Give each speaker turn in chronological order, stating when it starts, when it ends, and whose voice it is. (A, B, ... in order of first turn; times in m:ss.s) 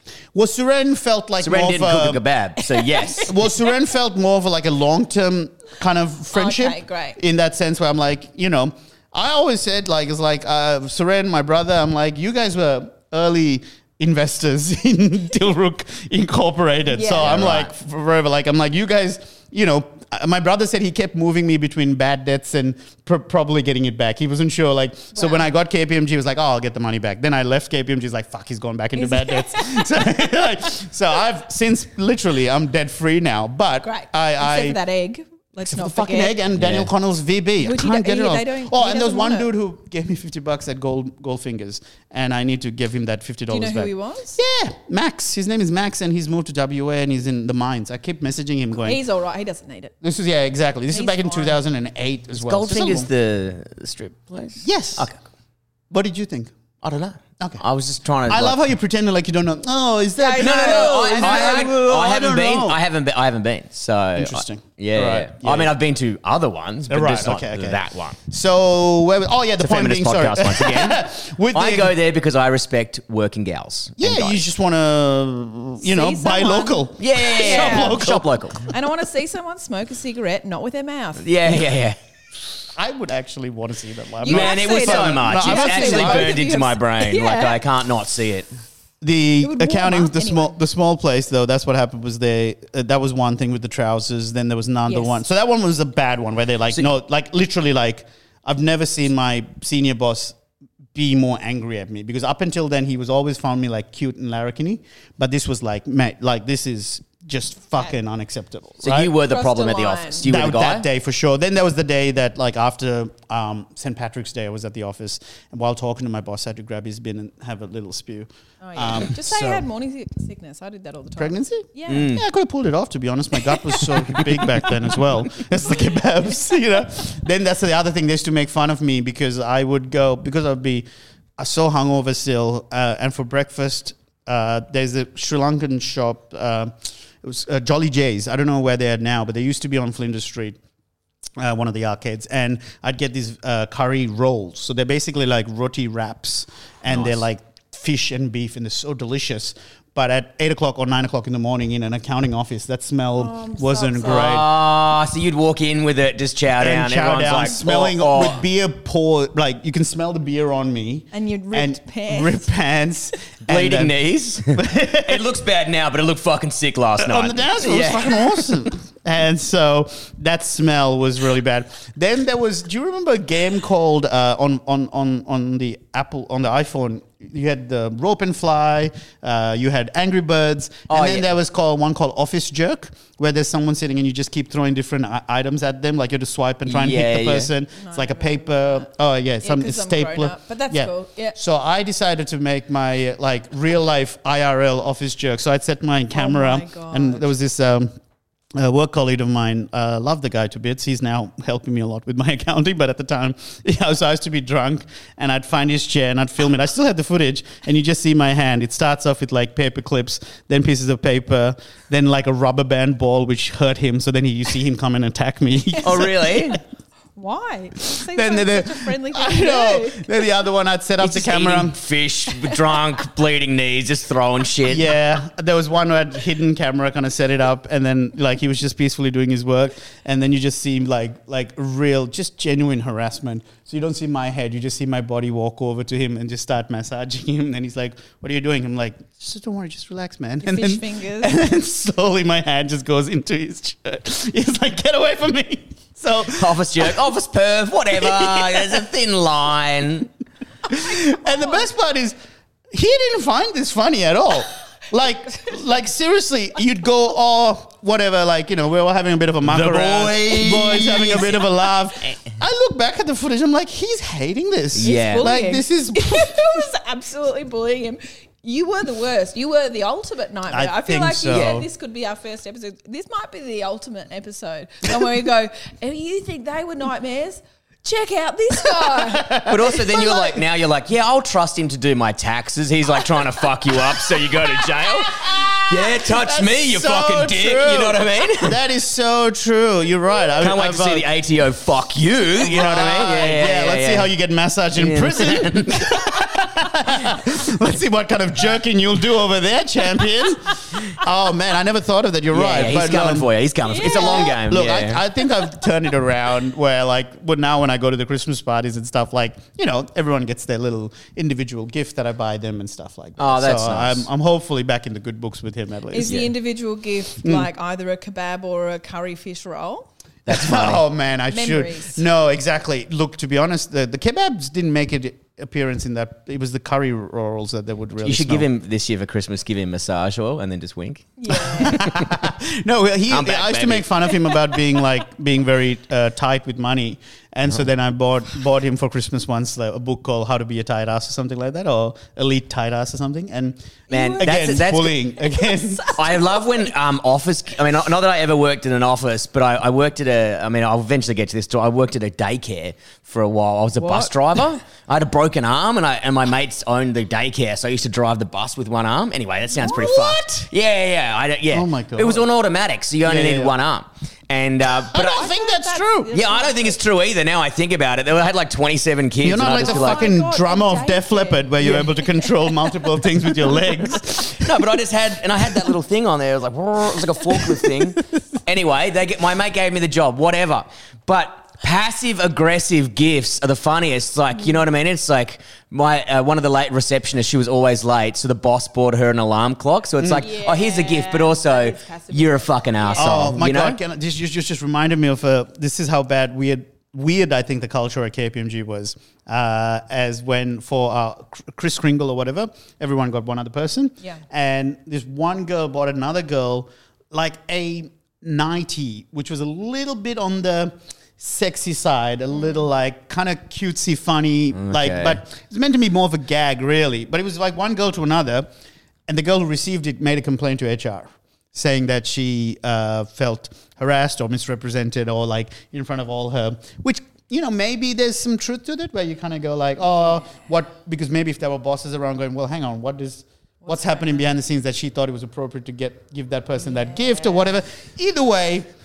0:00.3-0:02.2 A
0:01.4-0:03.3 B
0:02.8-0:03.3 C
0:03.2-0:34.8 A
0:06.3-0:07.2 C
0:16.9-0:17.3 C
0:17.2-0:17.7 B
0:25.1-0:25.5 C
0:29.0-0:30.1 C
0:33.8-0:36.4 C
0:35.6-0:49.0 A
0:36.6-0:36.9 B
0:37.6-0:39.5 C
0:43.5-0:44.4 C
0:48.8-0:49.9 C
0:50.0-0:53.1 A
0:50.9-0:51.6 C
0:52.4-0:55.2 B
0:54.6-0:55.1 A
0:55.9-0:56.5 A
0:56.8-0:58.6 B
0:58.3-1:02.8 A
1:00.2-1:01.7 C
1:00.4-1:08.2 B
1:04.2-1:05.7 A
1:06.9-1:12.0 A
1:09.6-1:11.0 B
1:11.5-1:14.4 B
1:14.0-1:18.3 A
1:15.8-1:18.0 C
1:17.0-1:18.6 B
1:18.7-1:21.2 C
1:21.2-1:22.0 B
1:22.8-1:26.4 A
1:24.2-1:27.6 C
1:24.3-1:28.5 B
1:29.0-1:40.4 A
1:29.4-1:30.6 C
1:34.9-1:35.2 C
1:41.0-1:49.1 A
1:48.8-1:50.9 B
1:49.2-1:50.3 C
1:50.3-1:59.6 A
1:58.6-2:02.1 C
2:01.2-2:10.9 A
2:01.9-2:02.2 B
2:11.4-2:20.6 A
2:21.4-2:34.5 A
2:33.2-2:34.4 C
2:34.0-2:38.4 B
2:36.6-2:44.0 A
2:41.1-2:42.5 C
2:43.5-2:48.5 B
2:44.5-2:45.2 A
2:47.0-3:17.9 A
3:00.9-3:01.3 B
3:06.7-3:07.5 B
3:07.8-3:08.9 C
3:09.4-3:11.4 C
3:16.1-3:17.3 C
3:18.6-3:36.5 A
3:35.8-3:36.6 B
3:37.2-3:40.2 C
3:38.0-3:41.8 A
3:41.0-3:44.9 B
3:44.7-4:07.0 A
4:00.4-4:01.3 C
4:06.3-4:10.1 B
4:07.9-4:08.8 A
4:10.7-4:12.2 A
4:11.2-4:11.6 C
4:12.7-4:26.6 A
4:19.4-4:21.4 B
4:24.8-4:25.3 B
4:24.8-4:39.5 C
4:30.5-4:31.7 A
4:31.3-4:31.6 B
4:38.6-4:40.4 A
4:39.5-4:48.6 B
4:44.2-4:51.1 A
4:50.4-4:54.1 B
4:52.4-5:16.3 A
4:54.8-4:56.0 B
5:02.3-5:05.0 B
5:03.7-5:04.4 C
5:13.2-5:14.1 B
5:15.9-5:19.9 C
5:17.2-5:17.5 A
5:20.3-5:20.8 B
5:20.3-5:28.5 A
5:21.3-5:22.0 C
5:28.0-5:31.1 B
5:31.2-5:31.8 C
5:31.5-5:46.0 A
5:31.7-5:32.1 B
5:33.1-5:33.9 B
5:43.9-5:44.6 C
5:43.9-5:45.0 B
5:45.2-5:46.5 C
5:46.0-6:05.2 B
5:53.8-5:54.1 C
5:59.6-6:00.2 A
6:01.5-6:02.3 A
6:03.0-6:03.6 A
6:04.8-6:06.1 A
6:05.0-6:06.8 C
6:06.1-6:10.1 B
6:09.2-6:14.5 A
6:09.5-6:12.4 C
6:14.4-6:33.8 B
6:30.0-6:30.3 A
6:30.2-6:33.4 C
6:33.0-6:58.5 A
6:52.4-6:52.6 C
6:54.5-6:55.2 B
6:59.1-7:18.7 A
7:13.6-7:14.3 C
7:16.7-7:17.5 C